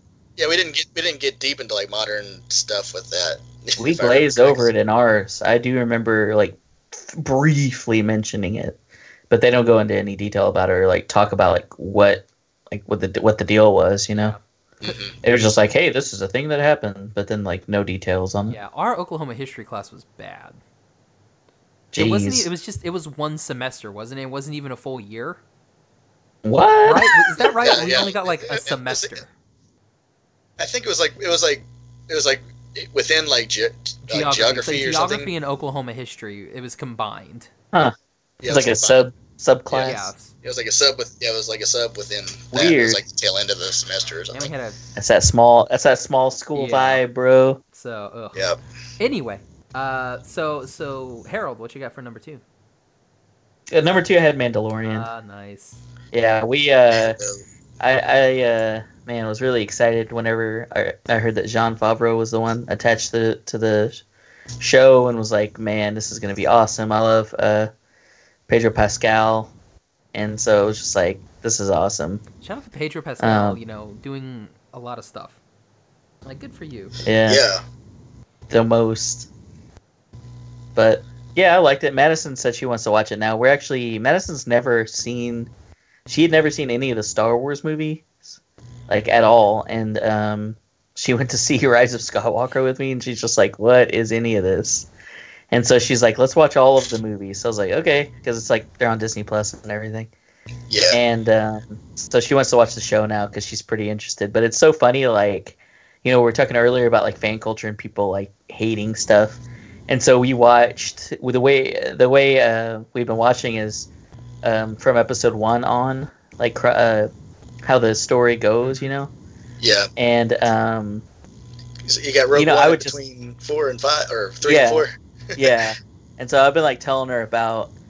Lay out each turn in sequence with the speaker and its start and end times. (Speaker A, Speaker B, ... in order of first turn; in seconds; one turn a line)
Speaker A: 0.4-4.7
Speaker B: 3.8-8.8
Speaker B: 9.3-14.4
Speaker C: 14.2-14.4
Speaker A: 14.8-15.2
Speaker B: 15.2-18.6
Speaker C: 18.5-20.6
Speaker B: 21.9-22.5
Speaker C: 22.0-25.4
Speaker B: 26.4-27.2
Speaker C: 26.9-29.3
Speaker A: 27.6-29.2
Speaker A: 30.6-35.3
Speaker C: 34.1-37.5
Speaker A: 38.4-39.0
Speaker B: 38.5-40.1
Speaker C: 39.8-40.3
Speaker A: 40.4-44.5
Speaker B: 42.5-43.0
Speaker C: 44.3-44.8
Speaker B: 45.0-47.6
Speaker C: 46.5-47.0
Speaker C: 47.7-48.4
Speaker C: 49.0-52.4
Speaker B: 53.7-55.1
Speaker C: 54.8-55.8
Speaker B: 56.1-57.2
Speaker A: 56.9-57.4
Speaker B: 57.8-64.0
Speaker B: 64.6-67.7
Speaker B: 68.5-69.5
Speaker B: 70.1-72.2
Speaker C: 72.4-75.4
Speaker B: 73.2-73.6
Speaker C: 76.2-77.0
Speaker B: 77.0-77.4
Speaker A: 77.3-77.6
Speaker B: 78.5-79.3
Speaker B: 80.8-85.5
Speaker B: 86.1-94.9
Speaker B: 95.5-100.1
Speaker A: 100.7-101.0
Speaker B: 100.9-113.9
Speaker B: 114.4-117.1
Speaker B: 117.7-119.1
Speaker A: 119.6-119.9
Speaker B: 120.0-121.0
Speaker A: 121.8-125.6
Speaker B: 122.3-123.0
Speaker B: 124.4-124.8
Speaker B: 125.4-127.7